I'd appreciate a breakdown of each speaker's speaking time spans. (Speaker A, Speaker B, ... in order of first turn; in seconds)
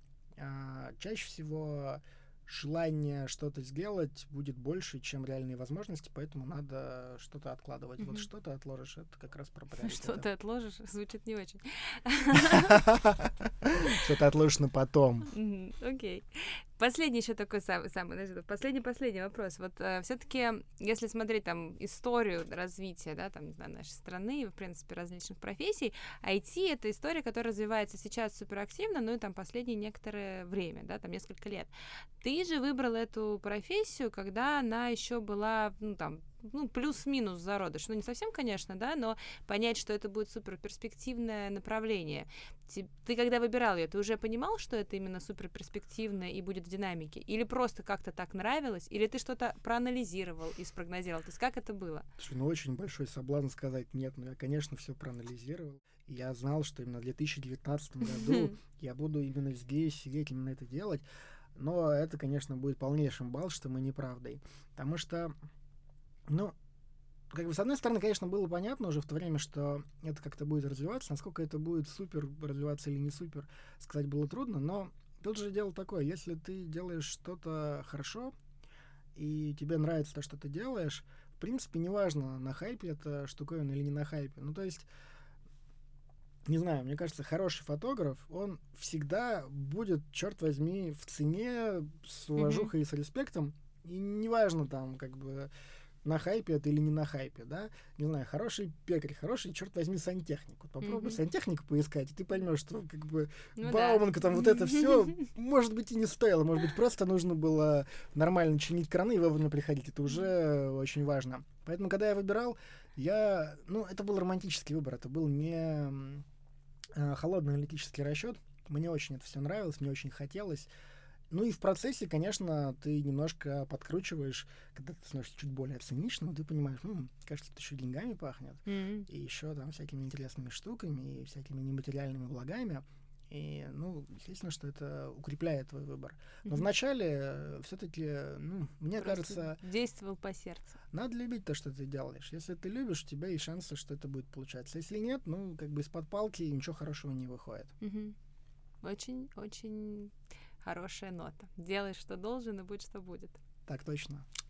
Speaker A: 0.4-10.3, 12.4-15.3, 52.2-61.0, 61.5-65.3, 66.3-66.5, 67.3-78.3, 79.2-84.8, 86.5-95.5, 96.0-116.2, 116.9-120.7, 121.3-139.6, 140.9-147.7, 153.7-154.3
Speaker B: 8.0-8.3, 9.8-12.8, 15.3-52.0, 58.0-58.5, 92.4-92.7, 100.8-101.2, 103.6-105.1, 128.7-129.1, 139.0-140.8, 147.8-148.2, 148.8-153.4